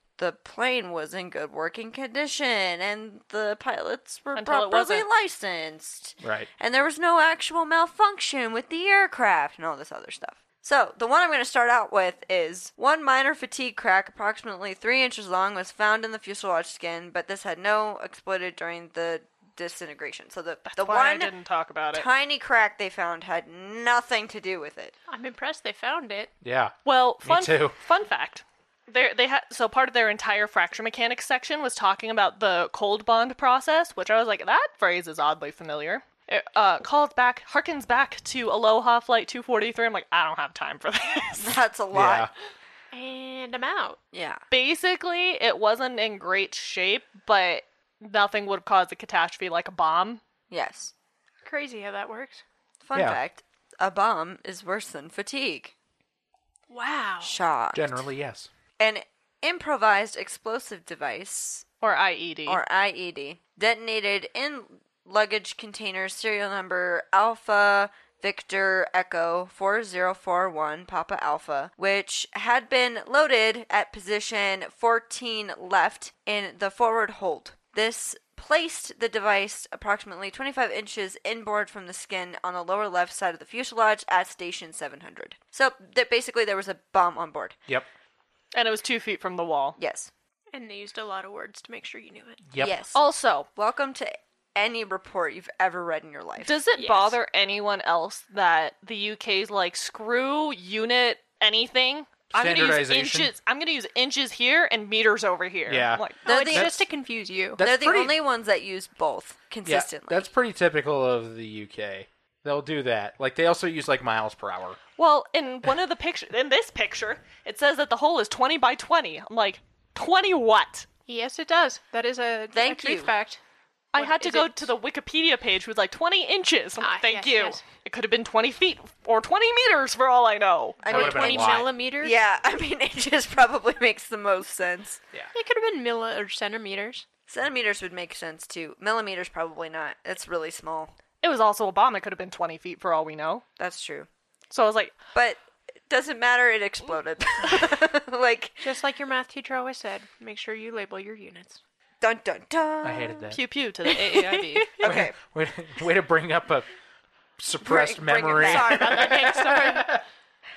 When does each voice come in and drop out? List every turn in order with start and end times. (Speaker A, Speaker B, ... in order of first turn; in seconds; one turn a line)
Speaker A: 0.2-21.3
Speaker B: 4.3-5.1
Speaker C: 6.2-6.5
Speaker B: 20.6-22.1
Speaker A: 21.9-24.9
Speaker D: 25.1-26.3
Speaker C: 26.4-27.8
Speaker B: 26.8-41.6
Speaker A: 41.4-42.3
Speaker C: 41.9-42.3
Speaker D: 42.9-44.0
Speaker A: 44.1-44.4
Speaker B: 44.5-50.2
Speaker A: 50.5-50.9
Speaker D: 51.4-52.4
Speaker A: 52.8-55.7
Speaker C: 52.9-53.2
Speaker D: 56.7-57.4
Speaker A: 57.2-58.0
Speaker C: 57.7-58.5
Speaker A: 58.8-61.6
Speaker B: 61.8-62.6
Speaker A: 62.5-87.5
Speaker B: 88.5-89.8
Speaker A: 89.8-90.1
Speaker D: 90.5-92.4
Speaker C: 92.4-92.8
Speaker A: 92.6-93.0
Speaker B: 92.9-93.5
Speaker A: 93.5-96.6
Speaker B: 96.4-106.2
Speaker D: 96.8-97.2
Speaker C: 102.3-103.3
Speaker C: 105.7-106.8
Speaker A: 106.2-106.8
Speaker D: 106.2-107.6
Speaker C: 107.6-108.2
Speaker A: 107.6-110.3
Speaker C: 109.6-114.8
Speaker B: 115.0-120.9
Speaker D: 121.1-123.4
Speaker A: 122.5-123.1
Speaker B: 123.9-130.8
Speaker D: 123.9-124.7
Speaker D: 126.8-127.6
Speaker A: 130.8-135.0
Speaker C: 130.9-131.7
Speaker D: 130.9-132.2
Speaker D: 135.3-137.0
Speaker A: 137.3-140.9
Speaker B: 141.2-143.4
Speaker A: 143.6-144.1
Speaker B: 144.5-145.0
Speaker A: 145.1-148.7
Speaker D: 148.6-151.6
Speaker A: 152.0-153.3
Speaker C: 152.8-153.4
Speaker B: 153.3-154.8
Speaker A: 154.8-155.1
Speaker C: 154.8-156.7
Speaker C: 157.4-160.0
Speaker A: 157.6-159.1
Speaker D: 158.5-159.9
Speaker B: 158.7-159.9